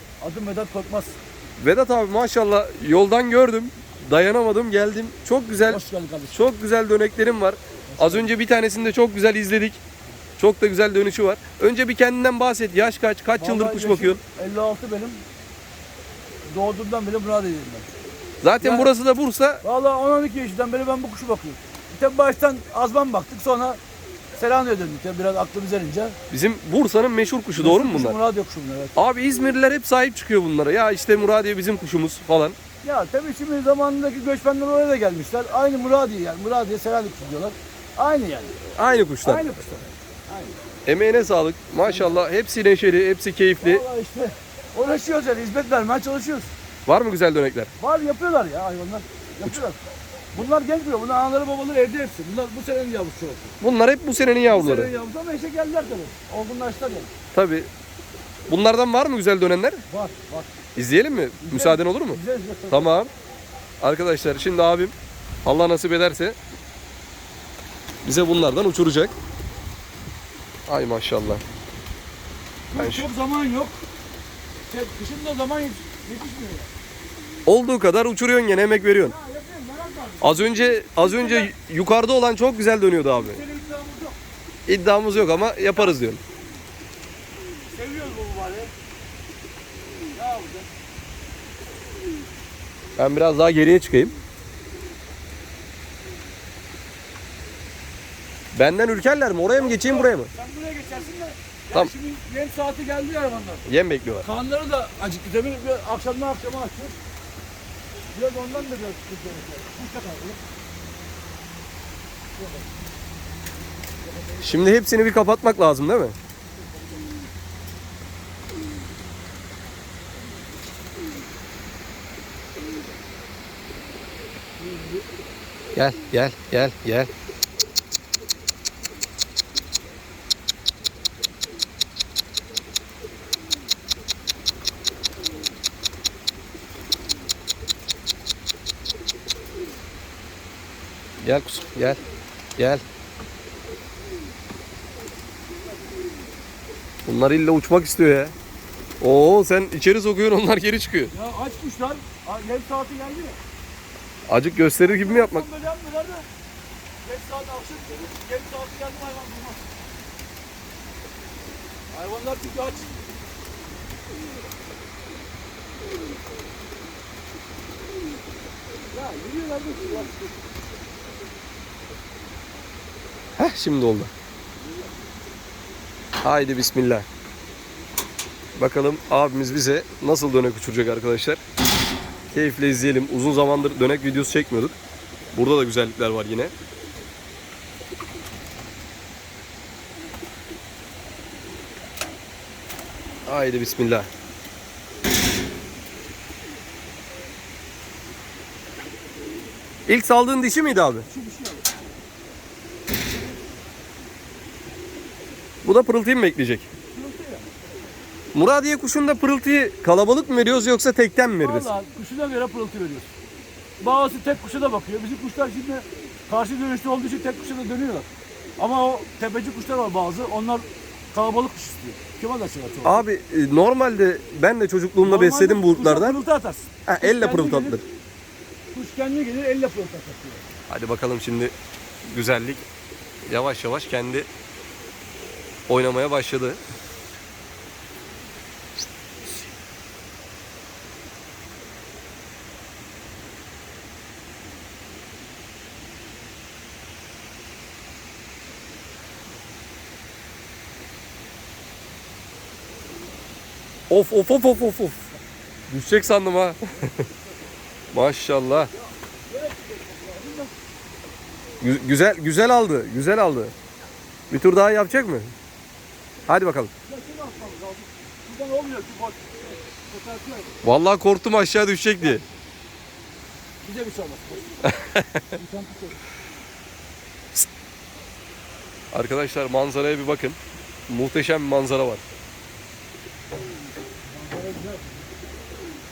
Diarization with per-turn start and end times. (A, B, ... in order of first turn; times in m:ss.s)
0:00.2-0:01.2 A
0:01.6-0:09.8 B
0:05.7-0:06.4 A
0:07.9-0:08.3 A
0:10.4-0:14.2 B
0:13.4-0:15.2 A
0:16.5-0:17.9 A
0:18.4-0:19.6 B
0:18.6-0:18.9 A
0:19.6-0:23.8 A
0:24.4-0:26.2 A
0:26.3-0:28.2 B
0:27.6-0:29.0 A
0:29.0-0:32.6 B
0:32.8-0:38.6 A
0:38.7-0:39.5 B
0:39.2-0:40.6 A
0:40.9-0:43.8 B
0:41.8-0:42.2 A
0:43.6-0:46.5 A
0:46.9-0:47.7 B
0:47.8-0:49.8 A
0:50.3-0:53.6 A
0:53.6-0:54.9 B
0:54.5-0:57.1 A
0:57.3-0:57.7 B
0:58.5-0:59.8 B
0:59.9-1:00.6 A
1:00.8-1:03.1 B
1:01.4-1:03.1 A
1:03.8-1:06.4 B
1:08.0-1:09.1 B
1:10.7-1:11.4 B
1:12.7-1:13.8 A
1:12.8-1:13.1 B
1:14.7-1:16.7 A
1:17.5-1:19.2 B
1:19.0-1:21.5 A
1:20.2-1:23.4 B
1:23.2-1:24.2 A
1:24.7-1:26.2 B
1:27.7-1:28.7 A
1:30.2-1:30.7 A
1:33.0-1:34.2 B
1:38.5-1:40.3 B
1:39.5-1:43.7 A
1:43.7-1:44.3 B
1:44.2-1:47.0 A
1:48.1-1:50.4 A
1:52.4-1:52.7 A
1:54.1-1:54.7 A
1:54.4-1:56.2 B
2:04.6-2:05.0 A
2:05.7-2:07.1 B
2:21.2-2:22.0 B
2:22.6-2:22.8 B
2:27.0-2:28.4 B
2:29.0-2:31.1 B
2:31.1-2:33.4 A
2:34.3-2:35.5 B
2:34.7-2:36.3 A
2:37.0-2:39.7 A
2:41.9-2:42.9 A
2:48.9-2:50.4 A
2:53.4-2:54.1 B
2:54.6-2:54.9 A
2:56.2-2:57.1 B
2:58.6-3:01.4 B
3:02.3-3:04.8 B
3:05.3-3:06.5 B
3:13.3-3:14.1 B
3:19.9-3:21.1 B
3:21.1-3:21.7 A
3:25.6-3:26.7 B
3:26.9-3:27.6 A
3:28.3-3:31.7 B
3:31.4-3:33.1 A
3:33.8-3:38.1 A
3:38.6-3:43.0 A
3:42.8-3:46.2 B
3:45.0-3:47.8 A
3:46.9-3:47.8 B
3:48.7-3:50.4 A
3:50.7-3:51.5 B
3:52.0-3:52.6 B
3:53.3-3:54.3 B
3:55.7-3:56.6 B
4:13.9-4:15.0 B
4:15.7-4:17.0 B
4:16.7-4:17.4 A
4:17.9-4:18.7 B
4:18.7-4:20.5 A
4:21.6-4:23.5 B
4:24.3-4:25.3 B
4:26.3-4:26.7 B
4:26.8-4:30.6 A
4:30.6-4:32.2 B
4:32.0-4:32.3 A
4:33.6-4:36.1 A
4:34.8-4:35.2 B
4:38.9-4:42.0 B
4:44.0-4:45.1 A